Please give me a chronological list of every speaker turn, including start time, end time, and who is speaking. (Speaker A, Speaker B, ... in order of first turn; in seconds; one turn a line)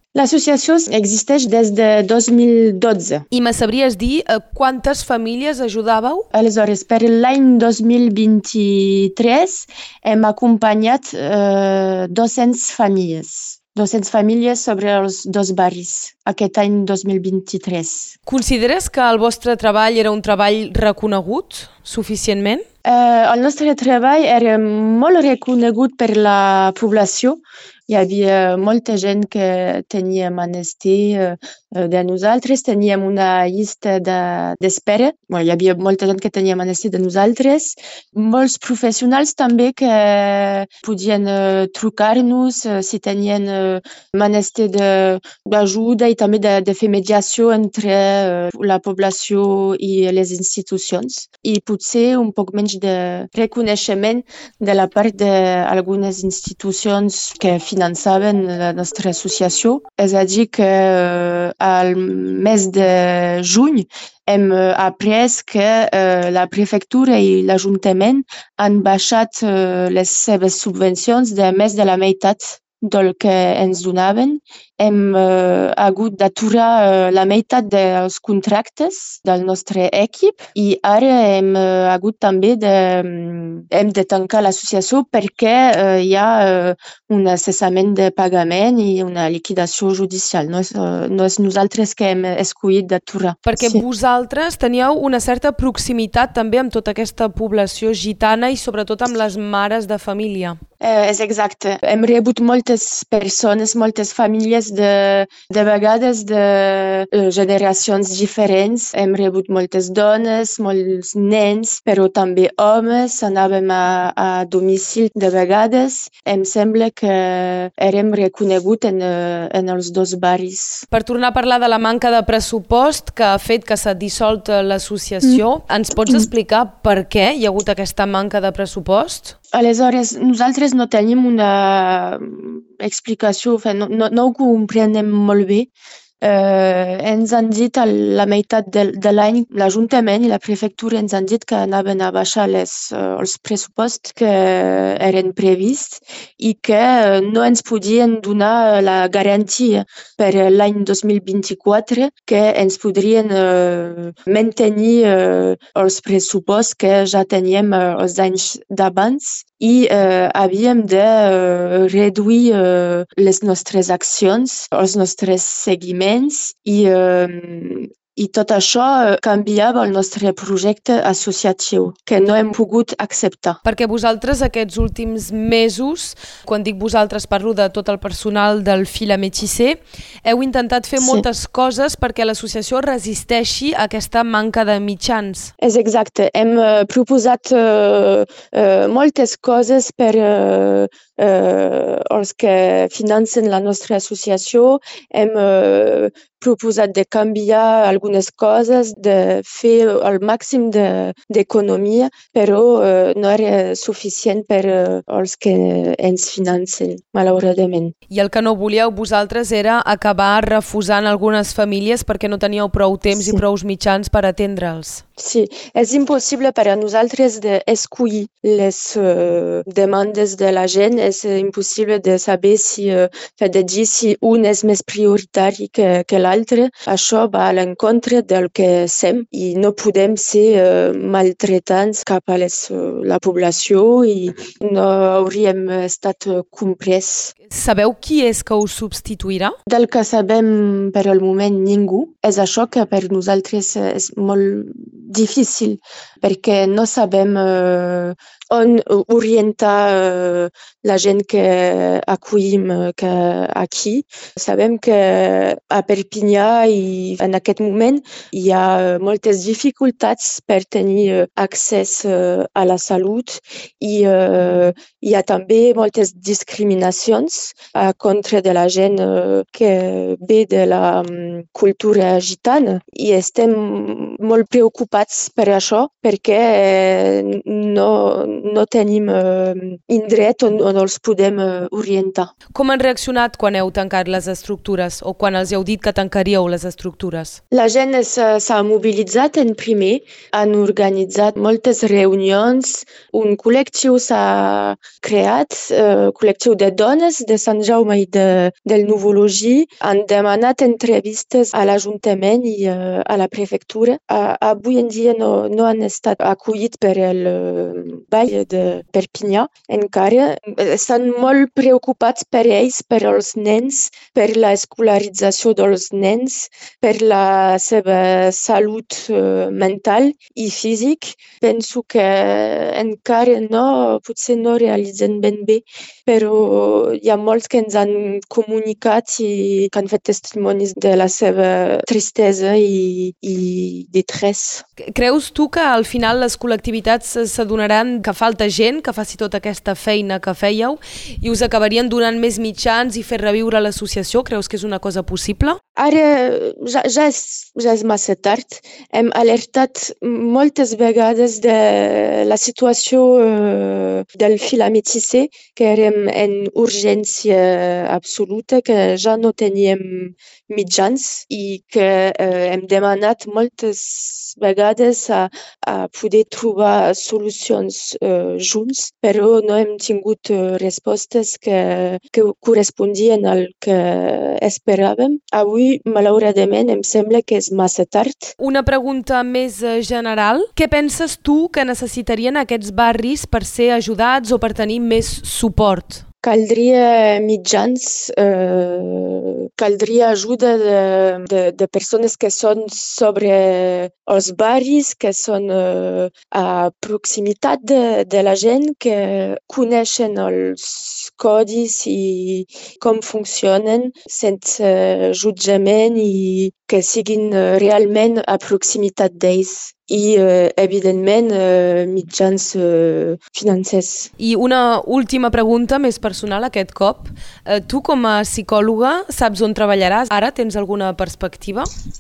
Speaker A: 0.1-3.2
Speaker B: 3.3-6.3
Speaker A: 6.3-18.2
Speaker B: 18.3-22.6
Speaker A: 22.9-93.8
Speaker B: 93.5-100.6
Speaker A: 100.8-120.9
Speaker B: 120.9-129.3
Speaker A: 129.5-135.7
Speaker A: 136.2-173.6
Speaker B: 173.6-185.5
Speaker A: 181.0-181.3
Speaker A: 185.6-207.9
Speaker B: 208.1-215.0
Speaker A: 213.1-213.4
Speaker A: 215.2-237.3
Speaker B: 237.5-239.6
Speaker A: 239.7-282.3
Speaker B: 282.5-287.4
Speaker A: 287.5-334.6
Speaker B: 334.8-345.6
Speaker A: 345.8-378.4
Speaker B: 378.4-386.0
Speaker A: 386.2-414.1
Speaker B: 414.2-421.7